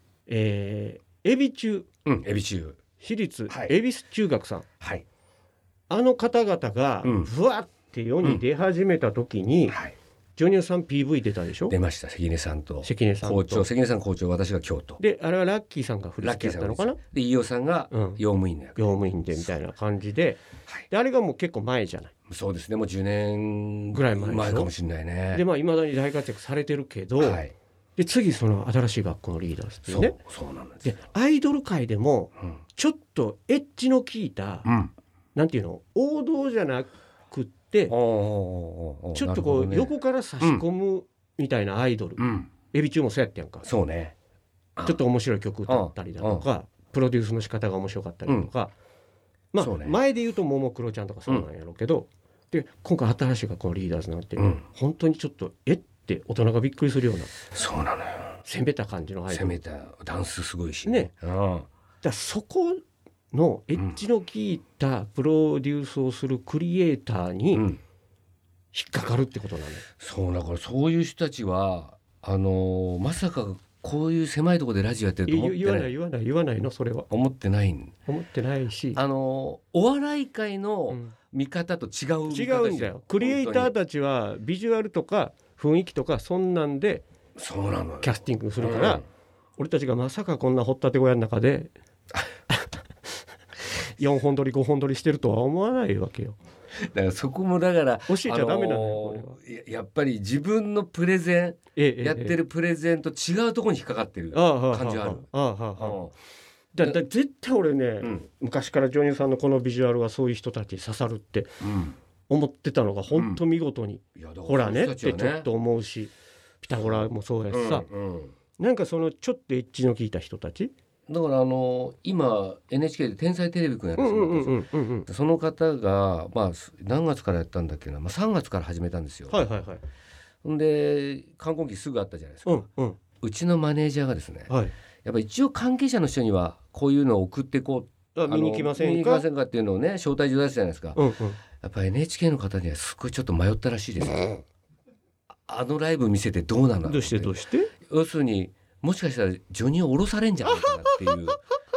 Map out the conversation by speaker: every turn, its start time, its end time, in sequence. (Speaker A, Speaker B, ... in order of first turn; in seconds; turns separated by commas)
Speaker A: 0.3-1.9, Speaker B: 2.0-2.8, Speaker A: 3.0-4.7, Speaker B: 3.5-3.7, Speaker A: 5.9-9.8, Speaker B: 7.0-7.3, Speaker B: 9.7-9.9, Speaker A: 10.4-11.7, Speaker B: 11.7-15.0, Speaker A: 12.8-13.7, Speaker A: 15.0-17.0, Speaker B: 16.2-19.0, Speaker A: 17.9-18.2, Speaker A: 18.8-22.1, Speaker B: 22.3-25.4, Speaker A: 23.9-24.7, Speaker A: 25.3-27.4, Speaker B: 27.2-27.5, Speaker A: 28.0-30.2, Speaker B: 29.9-30.9, Speaker A: 30.8-34.7, Speaker B: 34.6-34.9, Speaker A: 35.3-37.9, Speaker B: 37.9-40.6, Speaker A: 39.1-43.7, Speaker B: 42.2-42.5, Speaker B: 43.6-44.1, Speaker A: 44.9-48.7, Speaker B: 45.7-46.5, Speaker A: 49.5-57.4, Speaker B: 49.6-50.0, Speaker B: 54.4-54.6, Speaker B: 57.5-58.4, Speaker A: 58.4-59.6, Speaker B: 59.3-61.7, Speaker A: 62.0-67.7, Speaker B: 63.8-64.0, Speaker B: 67.5-67.8, Speaker A: 68.7-69.8, Speaker B: 70.0-75.9, Speaker A: 75.2-77.1, Speaker B: 77.1-77.9, Speaker A: 78.1-79.0, Speaker B: 78.9-83.7, Speaker A: 80.9-81.2, Speaker A: 82.3-87.0, Speaker B: 87.3-89.0, Speaker A: 88.0-89.0, Speaker A: 89.6-91.7, Speaker A: 92.5-92.8, Speaker A: 93.9-96.4, Speaker B: 96.8-106.1, Speaker A: 98.1-99.4, Speaker A: 101.8-102.4, Speaker A: 104.3-106.0, Speaker A: 106.7-111.5, Speaker B: 111.6-112.0, Speaker A: 112.3-117.9, Speaker B: 113.1-113.4, Speaker B: 114.2-115.5, Speaker B: 116.7-118.3, Speaker A: 118.6-120.7, Speaker B: 121.1-129.4, Speaker A: 124.0-125.1, Speaker A: 129.3-129.8, Speaker B: 130.4-132.6, Speaker A: 132.4-133.0, Speaker B: 133.2-134.5, Speaker A: 134.5-134.7, Speaker B: 135.0-141.0, Speaker A: 138.1-139.2, Speaker A: 140.9-141.4, Speaker B: 141.6-144.4, Speaker B: 145.4-147.3, Speaker A: 146.8-147.7, Speaker B: 147.9-151.4